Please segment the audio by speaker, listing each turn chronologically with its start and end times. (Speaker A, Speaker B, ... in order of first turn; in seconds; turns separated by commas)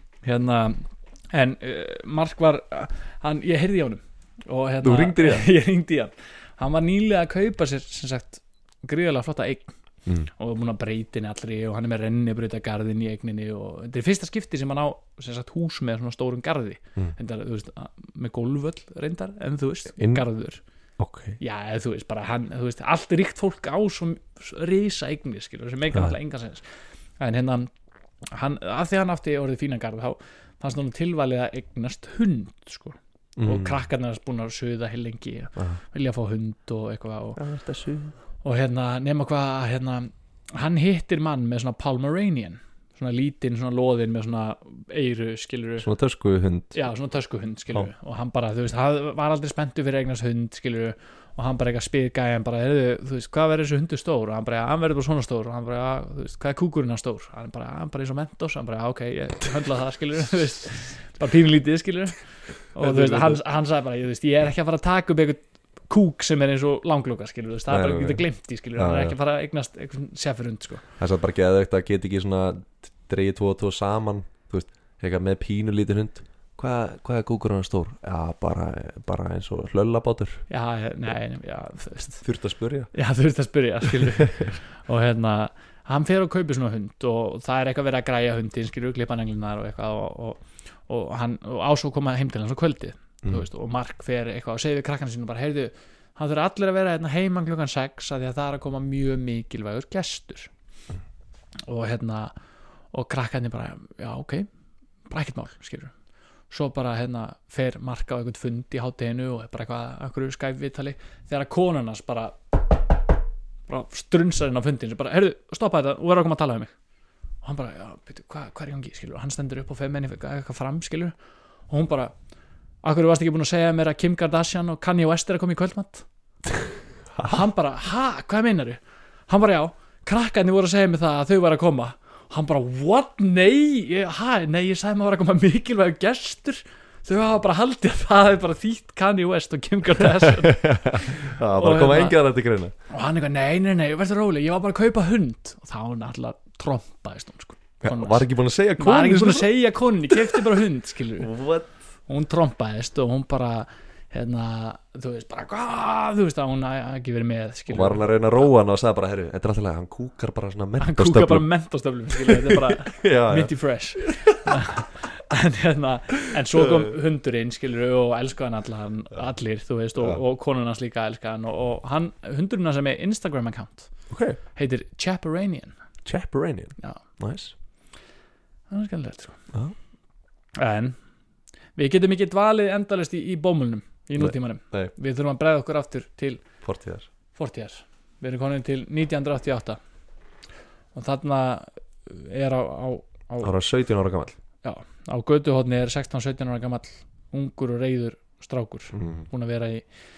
Speaker A: 0.2-9.7, Speaker B: 4.8-5.5, Speaker A: 10.2-20.6, Speaker B: 20.0-20.2, Speaker B: 21.0-21.4, Speaker A: 21.4-26.6, Speaker A: 27.2-27.7, Speaker A: 28.3-37.4, Speaker B: 33.4-33.8, Speaker B: 37.4-38.1, Speaker A: 38.4-45.9, Speaker B: 45.8-46.8, Speaker A: 46.7-62.2, Speaker A: 62.7-70.8, Speaker B: 62.8-63.4, Speaker B: 67.7-68.2, Speaker B: 68.8-69.2, Speaker B: 71.0-80.4, Speaker A: 80.5-82.2, Speaker B: 82.2-82.9, Speaker A: 82.9-100.5, Speaker B: 84.0-84.5, Speaker A: 101.7-102.3, Speaker A: 102.9-104.5, Speaker A: 105.1-105.9, Speaker A: 106.5-113.0, Speaker A: 113.7-116.7, Speaker A: 117.4-121.2, Speaker A: 121.7-122.1, Speaker A: 122.8-126.1, Speaker A: 127.2-142.2, Speaker B: 140.2-142.7, Speaker A: 142.9-151.3, Speaker B: 147.8-149.5, Speaker B: 150.1-150.5, Speaker B: 151.2-151.7, Speaker A: 152.1-158.1, Speaker B: 157.7-161.5, Speaker A: 160.8-173.9, Speaker B: 162.1-163.5, Speaker B: 164.1-164.6, Speaker B: 166.6-166.9, Speaker B: 174.1-174.4, Speaker A: 174.5-175.8, Speaker B: 176.1-177.5, Speaker A: 178.7-179.4, Speaker A: 180.6-181.0, Speaker A: 181.8-186.4, Speaker B: 184.2-184.9, Speaker B: 186.6-187.1, Speaker A: 187.3-189.8, Speaker A: 190.9-193.5, Speaker B: 193.4-194.4, Speaker A: 194.6-199.8, Speaker B: 198.9-199.3